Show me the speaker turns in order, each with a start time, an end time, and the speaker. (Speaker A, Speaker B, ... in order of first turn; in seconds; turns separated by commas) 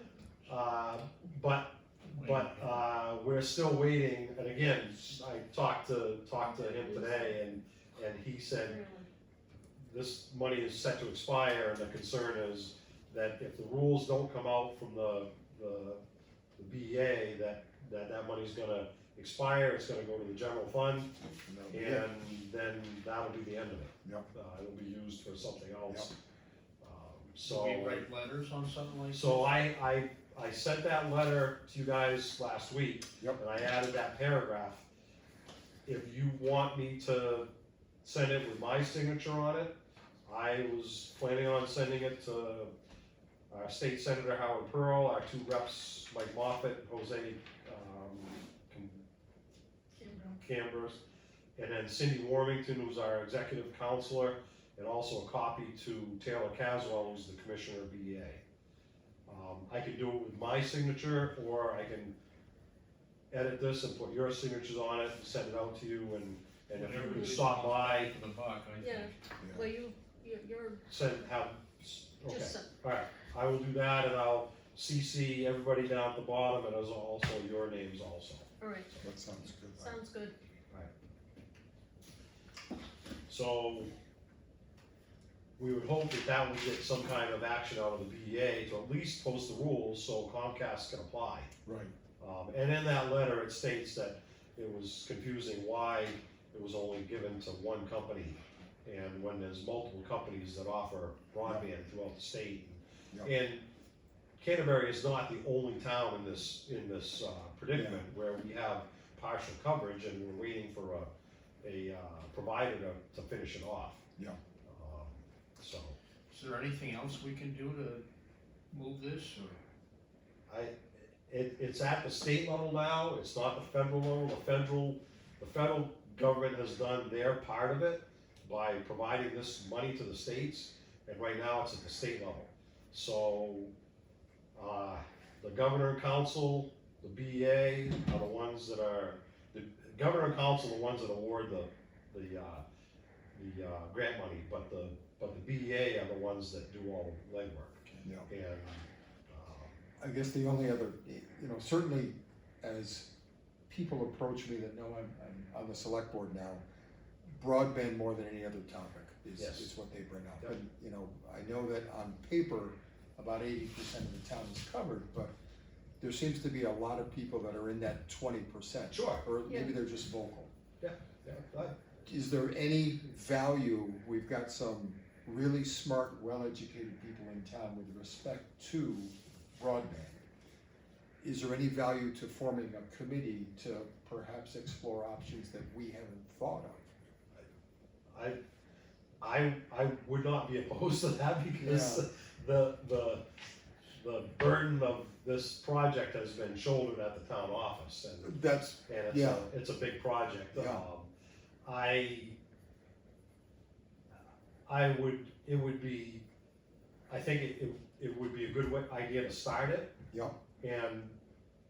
Speaker A: 0.5-8.8, Speaker B: 2.1-2.8, Speaker C: 6.4-7.4, Speaker C: 8.6-9.1, Speaker A: 9.8-16.0, Speaker A: 16.6-21.1, Speaker D: 21.4-22.1, Speaker A: 21.7-26.1, Speaker D: 24.0-24.3, Speaker A: 26.8-28.1, Speaker B: 27.4-29.4, Speaker A: 29.1-34.9, Speaker A: 35.9-37.5, Speaker A: 38.0-39.8, Speaker A: 40.3-42.7, Speaker A: 43.5-49.1, Speaker C: 50.0-50.4, Speaker A: 50.4-51.0, Speaker A: 51.6-58.4, Speaker A: 59.3-62.2, Speaker A: 63.3-68.1, Speaker B: 66.7-69.2, Speaker C: 67.0-67.4, Speaker C: 68.8-70.8, Speaker D: 69.4-69.7, Speaker A: 70.9-79.1, Speaker C: 72.3-72.7, Speaker C: 78.6-78.9, Speaker D: 79.0-80.0, Speaker C: 79.8-80.3, Speaker A: 83.3-83.9, Speaker A: 85.6-91.5, Speaker D: 91.7-91.9, Speaker A: 92.2-103.7, Speaker A: 104.4-111.1, Speaker D: 107.7-108.0, Speaker A: 111.6-114.0, Speaker A: 114.7-116.0, Speaker B: 116.3-118.0, Speaker B: 118.7-119.6, Speaker A: 120.5-133.7, Speaker A: 134.6-142.6, Speaker A: 143.3-149.8, Speaker D: 148.0-148.3, Speaker D: 150.0-153.1, Speaker D: 153.7-156.6, Speaker D: 157.3-165.3, Speaker A: 159.4-159.7, Speaker D: 166.0-170.5, Speaker A: 168.9-169.2, Speaker C: 169.4-169.7, Speaker A: 170.8-171.8, Speaker D: 172.1-180.2, Speaker D: 181.2-186.9, Speaker A: 188.1-188.4, Speaker A: 189.2-193.2, Speaker D: 191.6-192.1, Speaker A: 193.9-201.1, Speaker D: 198.2-199.4, Speaker D: 200.5-200.9, Speaker A: 201.6-202.4, Speaker A: 204.7-206.2, Speaker A: 207.1-209.9, Speaker A: 210.6-211.2